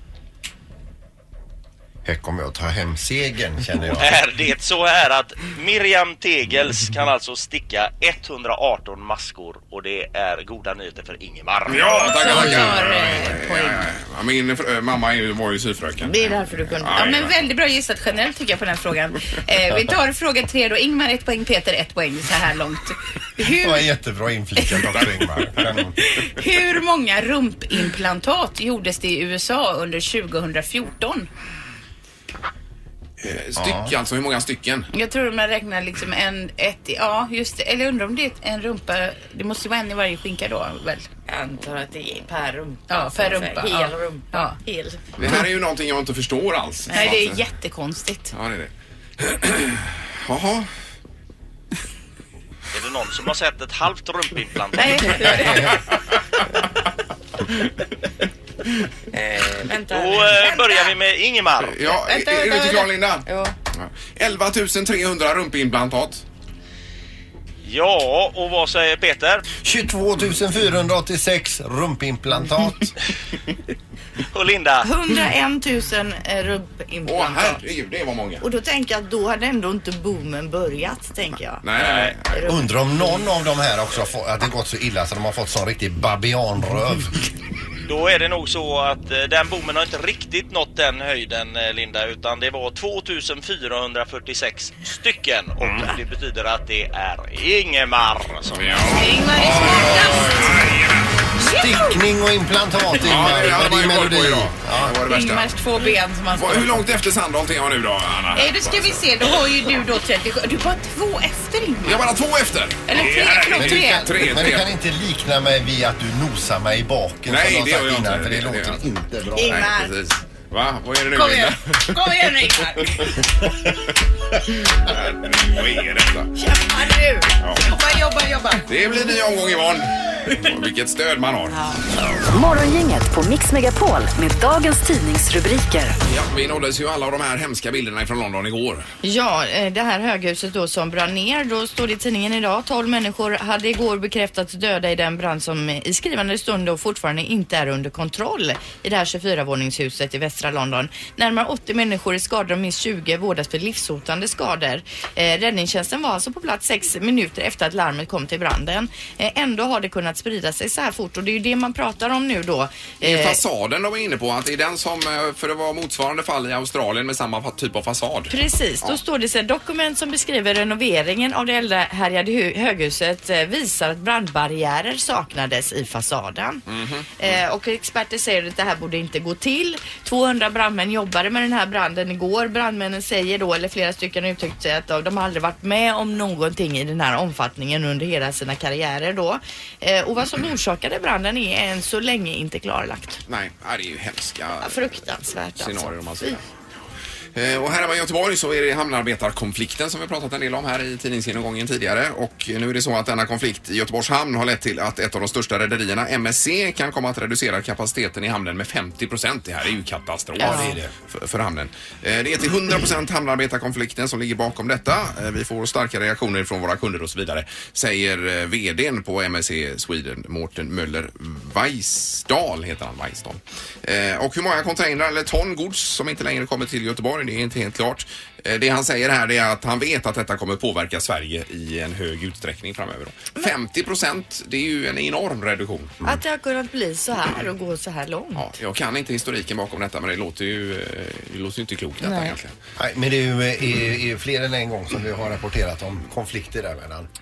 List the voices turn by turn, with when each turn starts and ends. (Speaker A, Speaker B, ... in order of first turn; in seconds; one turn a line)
Speaker A: 2.0-4.2
Speaker B: 3.9-11.9
Speaker C: 11.7-17.4
Speaker D: 11.7-13.8
Speaker A: 12.2-12.8
Speaker E: 16.0-17.0
Speaker D: 16.9-23.9
Speaker A: 23.4-25.9
Speaker D: 24.6-24.9
Speaker C: 24.9-25.7
Speaker D: 26.0-31.3
Speaker C: 33.2-34.9
Speaker A: 33.6-33.9
Speaker D: 34.9-41.1
Speaker E: 41.3-45.0
Speaker D: 42.9-44.6
Speaker C: 45.2-47.4
Speaker E: 46.9-47.2
Speaker D: 46.9-48.3
Speaker C: 48.3-50.7
Speaker B: 52.7-55.0
Speaker D: 54.8-55.7
Speaker A: 55.2-55.8
Speaker E: 59.1-60.9
Speaker B: 59.9-61.8
Speaker C: 61.6-66.2
Speaker D: 62.1-62.9
Speaker E: 63.2-63.5
Speaker B: 67.6-69.4
Speaker A: 69.6-72.9
Speaker B: 74.3-74.9
Speaker E: 74.8-77.6
Speaker C: 77.1-78.4
Speaker E: 78.4-81.6
Speaker C: 81.6-82.5
Speaker B: 81.8-82.2
Speaker E: 82.3-82.6
Speaker A: 82.5-87.2
Speaker B: 87.9-98.9
Speaker C: 95.6-95.9
Speaker C: 98.5-101.1
Speaker D: 98.8-100.7
Speaker D: 101.4-102.0
Speaker A: 101.5-104.9
Speaker C: 103.0-105.6
Speaker D: 105.0-106.8
Speaker C: 106.3-109.1
Speaker D: 108.3-112.1
Speaker C: 111.8-114.7
Speaker D: 112.8-114.1
Speaker A: 113.6-119.6
Speaker C: 117.3-118.8
Speaker E: 119.3-119.9
Speaker C: 119.4-123.0
Speaker D: 121.1-122.9
Speaker C: 124.6-126.3
Speaker E: 126.3-127.4
Speaker D: 127.6-128.6
Speaker C: 128.7-131.6
Speaker E: 131.5-131.8
Speaker F: 132.3-135.9
Speaker C: 136.1-138.9
Speaker E: 139.0-163.4
Speaker C: 163.0-169.0
Speaker E: 168.3-176.6
Speaker C: 176.7-177.2
Speaker E: 177.2-193.2
Speaker C: 193.3-195.0
Speaker E: 194.6-196.4
Speaker C: 195.6-196.4
Speaker C: 197.3-236.0
Speaker A: 210.4-210.9
Speaker E: 210.4-210.8
Speaker E: 236.0-238.5
Speaker C: 238.3-242.5
Speaker E: 242.0-242.3
Speaker A: 242.8-247.1